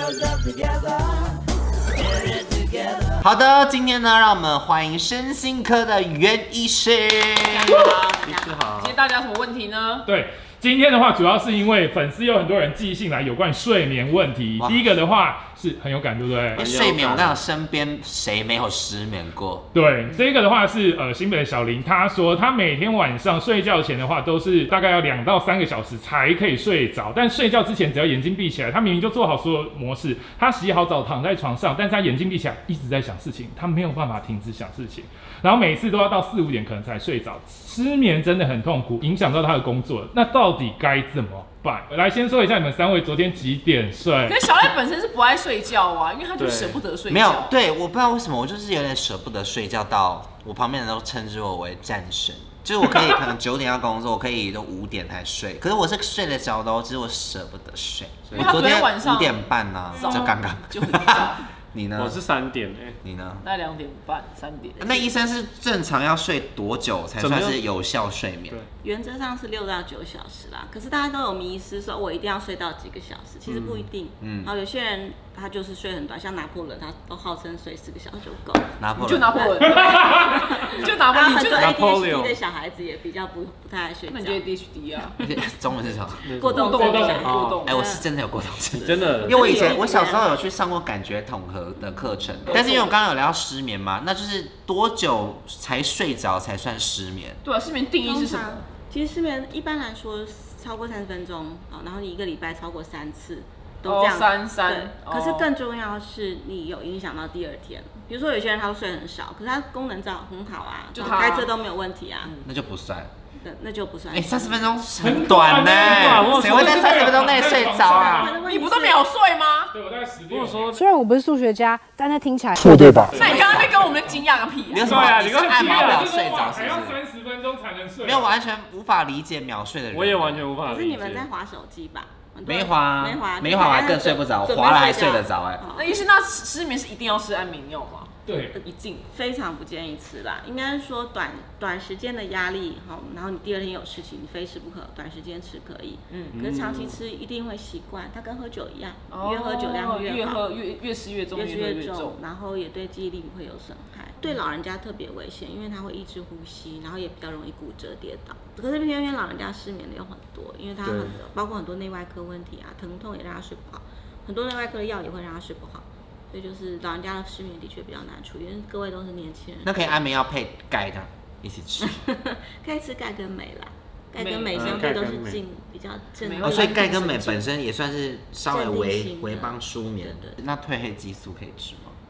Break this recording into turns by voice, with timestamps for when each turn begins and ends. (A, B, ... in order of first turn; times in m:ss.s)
0:03.2-0:07.8 A
0:07.6-0:08.6 B
0:07.7-0:08.2 C
0:08.2-0:09.0 D
0:08.8-0:10.1 C
0:10.1-0:16.6 E
0:14.6-0:14.9 A
0:16.6-0:17.4 D
0:16.6-0:19.7 A
0:19.7-0:44.4 E
0:44.3-0:47.5 C
0:46.4-0:46.8 D
0:47.1-1:02.2 A
0:58.4-1:01.5 C
1:02.0-1:03.0 D
1:03.0-1:03.4 A
1:03.4-1:05.0 C
1:04.8-1:08.6 A
1:07.2-1:07.6 D
1:08.8-1:18.8 B
1:13.5-1:13.9 D
1:14.2-1:14.5 A
1:18.8-1:19.4 A
1:19.0-1:21.7 C
1:19.3-1:24.4 B
1:21.6-1:22.4 D
1:24.1-1:25.2 C
1:25.2-1:26.3 A
1:26.2-1:27.6 D
1:26.3-1:28.0 B
1:26.5-1:27.9 C
1:26.8-1:27.2 E
1:27.6-1:37.4 A
1:28.8-1:29.8 D
1:28.8-1:30.4 B
1:32.5-1:32.9 B
1:37.4-1:38.6 C
1:38.0-1:52.3 B
1:43.8-1:45.5 C
1:50.9-1:51.5 C
1:52.4-1:53.1 A
1:53.4-1:54.7 B
1:54.1-1:58.3 A
1:55.0-1:58.4 E
1:55.9-1:57.0 D
1:57.8-1:59.0 B
1:58.4-1:59.7 C
1:59.7-2:00.8 E
2:00.3-2:00.8 D
2:00.8-2:03.6 F
2:03.0-2:03.5 D
2:03.1-2:05.2 C
2:04.7-2:07.0 A
2:04.8-2:08.4 E
2:05.6-2:06.0 D
2:08.0-2:10.4 A
2:09.9-2:11.3 D
2:10.6-2:15.9 B
2:12.4-2:15.6 A
2:15.7-2:19.1 C
2:18.2-2:18.6 E
2:19.1-2:30.4 B
2:26.1-2:26.4 C
2:26.3-2:27.0 D
2:29.1-2:32.2 C
2:31.3-2:49.7 B
2:40.8-2:41.2 D
2:49.6-2:52.0 A
2:51.8-2:57.2 B
2:54.2-2:55.0 C
2:54.5-2:55.4 D
2:56.2-2:57.4 C
2:56.4-3:02.0 A
2:58.5-3:00.4 B